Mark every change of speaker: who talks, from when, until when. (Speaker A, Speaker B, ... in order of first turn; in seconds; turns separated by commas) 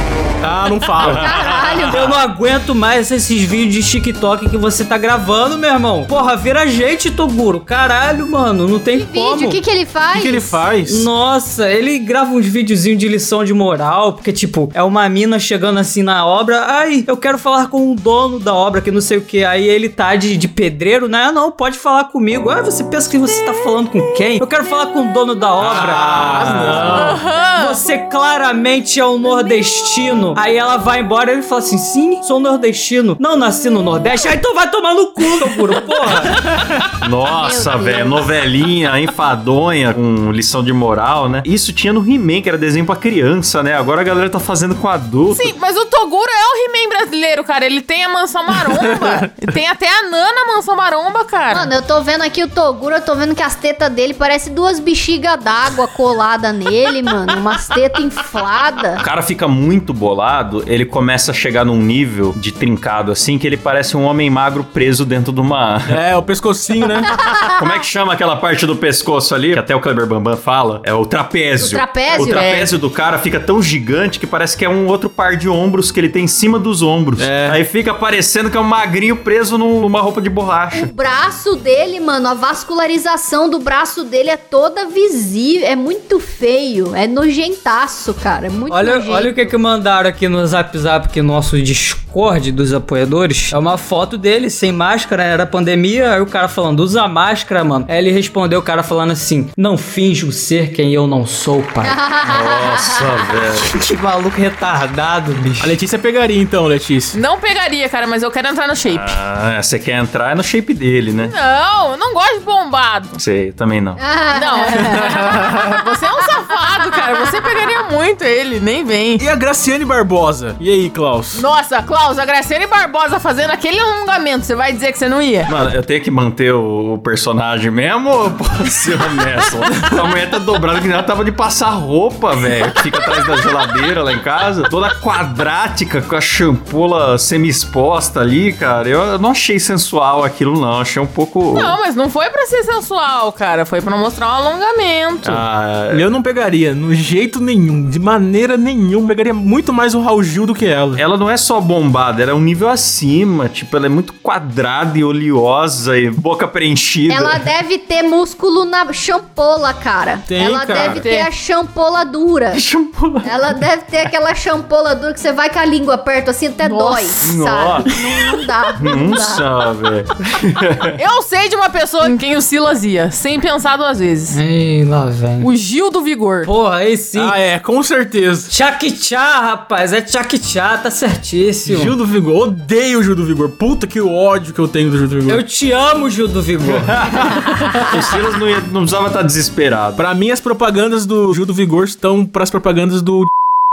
Speaker A: 0.4-1.3, Speaker B: 1.0-2.0, Speaker C: 1.1-2.1, Speaker D: 1.9-9.6, Speaker C: 8.9-10.7, Speaker A: 10.1-11.1, Speaker D: 10.8-26.3, Speaker B: 25.6-27.2, Speaker A: 25.7-27.2, Speaker E: 26.8-27.8, Speaker D: 27.5-36.4, Speaker B: 37.0-45.5, Speaker C: 37.4-38.3, Speaker E: 45.3-51.7, Speaker A: 48.6-49.3, Speaker C: 51.5-59.0, Speaker B: 59.0-66.0, Speaker A: 65.9-67.1, Speaker C: 67.1-67.5, Speaker B: 67.5-80.9, Speaker C: 71.6-72.5, Speaker E: 72.1-72.7, Speaker A: 77.2-77.6, Speaker C: 80.7-89.5, Speaker D: 88.7-102.0, Speaker C: 101.8-103.3, Speaker B: 102.2-103.7, Speaker D: 103.7-105.8, Speaker A: 105.6-107.2, Speaker E: 107.1-109.1, Speaker B: 108.9-111.3, Speaker E: 111.2-113.1, Speaker B: 113.2-114.0, Speaker C: 114.0-115.1, Speaker E: 114.3-119.2, Speaker A: 114.8-115.8, Speaker A: 119.2-121.4, Speaker E: 121.3-125.5, Speaker B: 125.5-141.8, Speaker E: 141.6-145.4, Speaker B: 145.2-146.0, Speaker A: 145.9-151.0, Speaker B: 150.9-157.5, Speaker C: 157.1-162.6, Speaker A: 160.3-161.0, Speaker B: 160.7-161.0, Speaker E: 160.9-161.3, Speaker B: 162.5-163.6, Speaker C: 163.2-169.4, Speaker E: 166.6-167.3, Speaker B: 167.2-167.9, Speaker B: 168.8-171.0, Speaker E: 170.9-174.4, Speaker D: 174.3-175.5, Speaker E: 175.4-176.5, Speaker D: 176.4-177.4, Speaker A: 177.1-178.5, Speaker D: 178.5-181.9, Speaker A: 181.7-185.4, Speaker D: 185.3-187.1, Speaker B: 186.6-190.0, Speaker A: 190.0-193.3